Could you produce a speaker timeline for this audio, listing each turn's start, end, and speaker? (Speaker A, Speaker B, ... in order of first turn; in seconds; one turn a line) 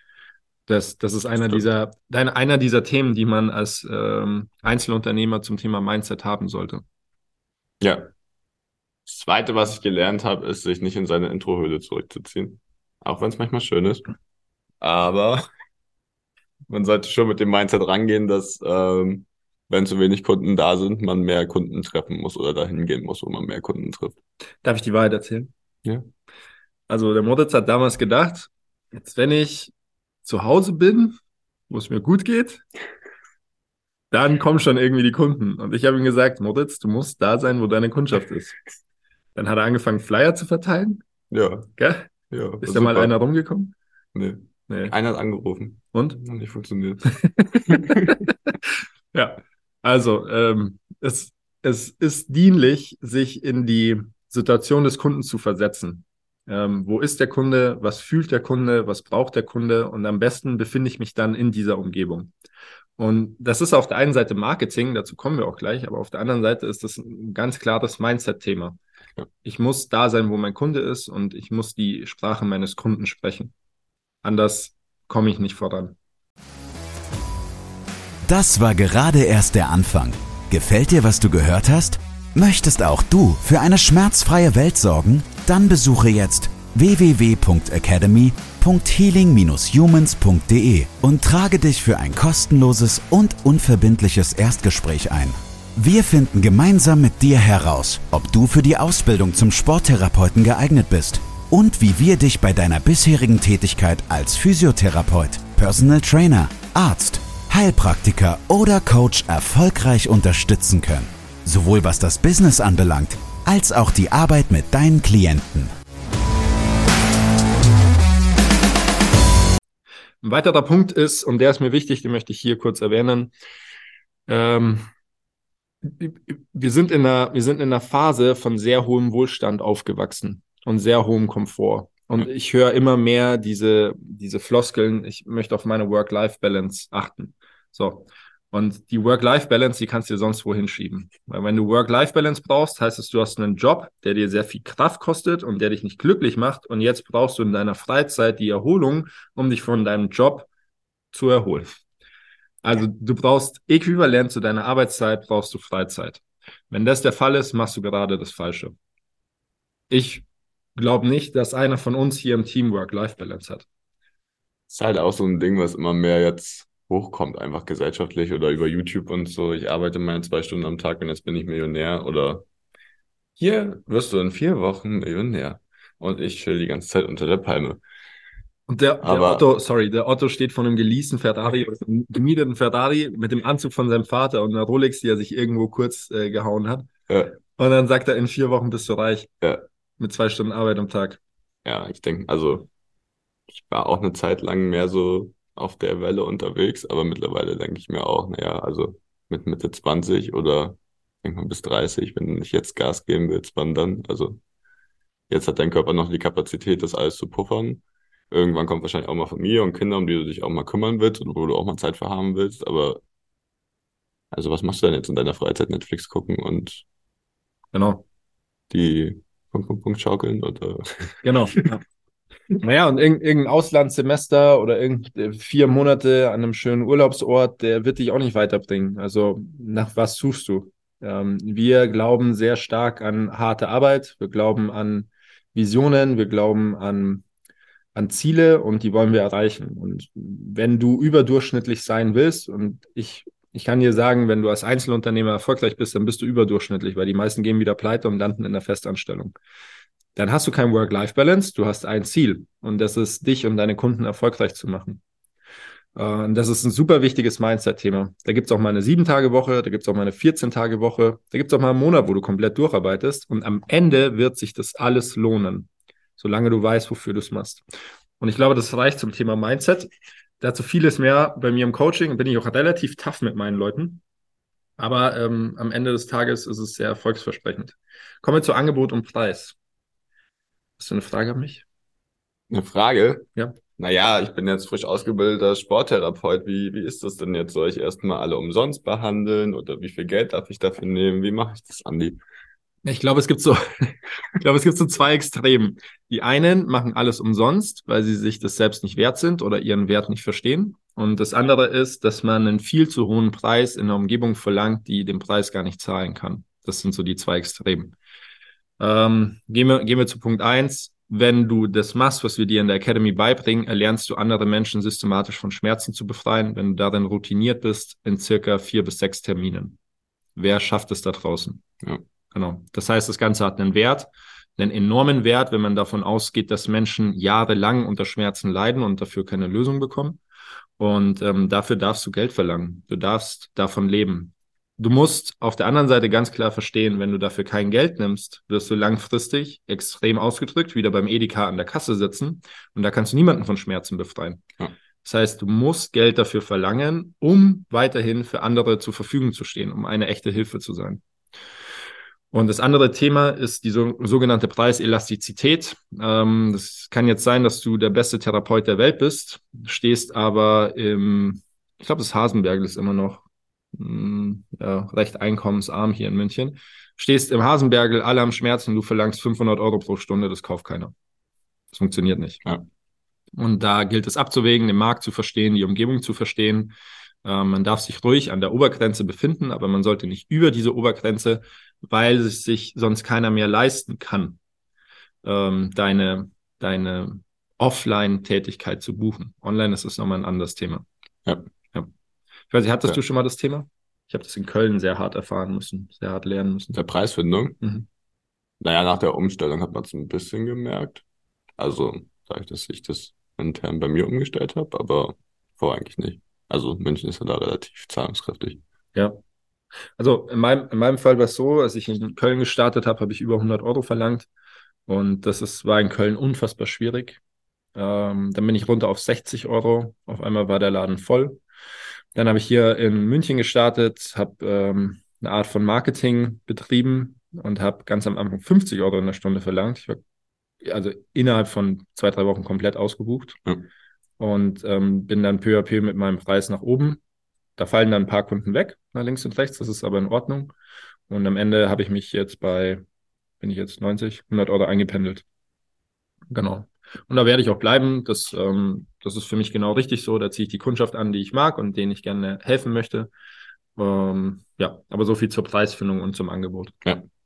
Speaker A: 0.7-6.8
Speaker B: 7.8-8.1
Speaker B: 9.1-14.1
Speaker B: 14.8-15.4
Speaker B: 16.7-24.2
Speaker A: 24.6-25.5
Speaker A: 26.9-29.7
Speaker A: 30.2-31.2
Speaker A: 31.7-32.6
Speaker A: 34.1-38.6
Speaker A: 39.3-41.0
Speaker B: 41.3-41.7
Speaker A: 41.8-42.1
Speaker B: 42.3-43.1
Speaker A: 42.6-43.7
Speaker B: 44.1-48.1
Speaker A: 44.7-44.9
Speaker A: 45.9-46.2
Speaker A: 47.2-48.3
Speaker A: 49.1-62.3
Speaker A: 63.0-68.8
Speaker A: 69.4-73.5
Speaker A: 74.2-76.0
Speaker C: 78.3-115.7
Speaker A: 120.2-123.3
Speaker A: 124.3-124.8
Speaker A: 125.8-150.5
Speaker A: 151.1-151.7
Speaker A: 152.6-158.7
Speaker A: 159.9-160.2
Speaker A: 160.8-163.7
Speaker B: 164.7-172.4
Speaker B: 173.4-177.8
Speaker A: 178.7-186.9
Speaker B: 179.0-179.4
Speaker B: 187.1-187.4
Speaker A: 187.6-189.3
Speaker A: 190.0-191.2
Speaker B: 191.6-192.7
Speaker B: 193.5-204.4
Speaker B: 205.3-213.0
Speaker B: 214.3-216.8
Speaker A: 217.7-218.0
Speaker B: 218.7-221.6
Speaker A: 221.2-221.8
Speaker A: 222.6-237.2
Speaker A: 237.9-249.3
Speaker A: 250.2-255.0
Speaker A: 255.9-267.6
Speaker A: 268.2-269.9
Speaker A: 270.4-274.0
Speaker A: 274.8-279.6
Speaker A: 280.8-281.6
Speaker B: 282.5-292.2
Speaker A: 292.8-307.9
Speaker A: 308.8-319.8
Speaker A: 320.4-321.6
Speaker A: 322.3-330.2
Speaker A: 330.8-344.4
Speaker A: 345.0-351.0
Speaker A: 352.3-370.9
Speaker A: 371.7-372.4
Speaker A: 373.4-384.4
Speaker A: 385.2-390.9
Speaker A: 392.5-396.8
Speaker B: 396.7-397.6
Speaker B: 398.6-401.0
Speaker B: 401.6-408.6
Speaker A: 410.0-414.3
Speaker A: 414.9-417.2
Speaker A: 417.8-421.4
Speaker A: 422.1-430.0
Speaker A: 430.6-433.4
Speaker A: 434.2-437.0
Speaker A: 437.6-440.5
Speaker A: 441.1-442.8
Speaker A: 443.4-445.2
Speaker A: 446.3-453.1
Speaker A: 453.8-456.8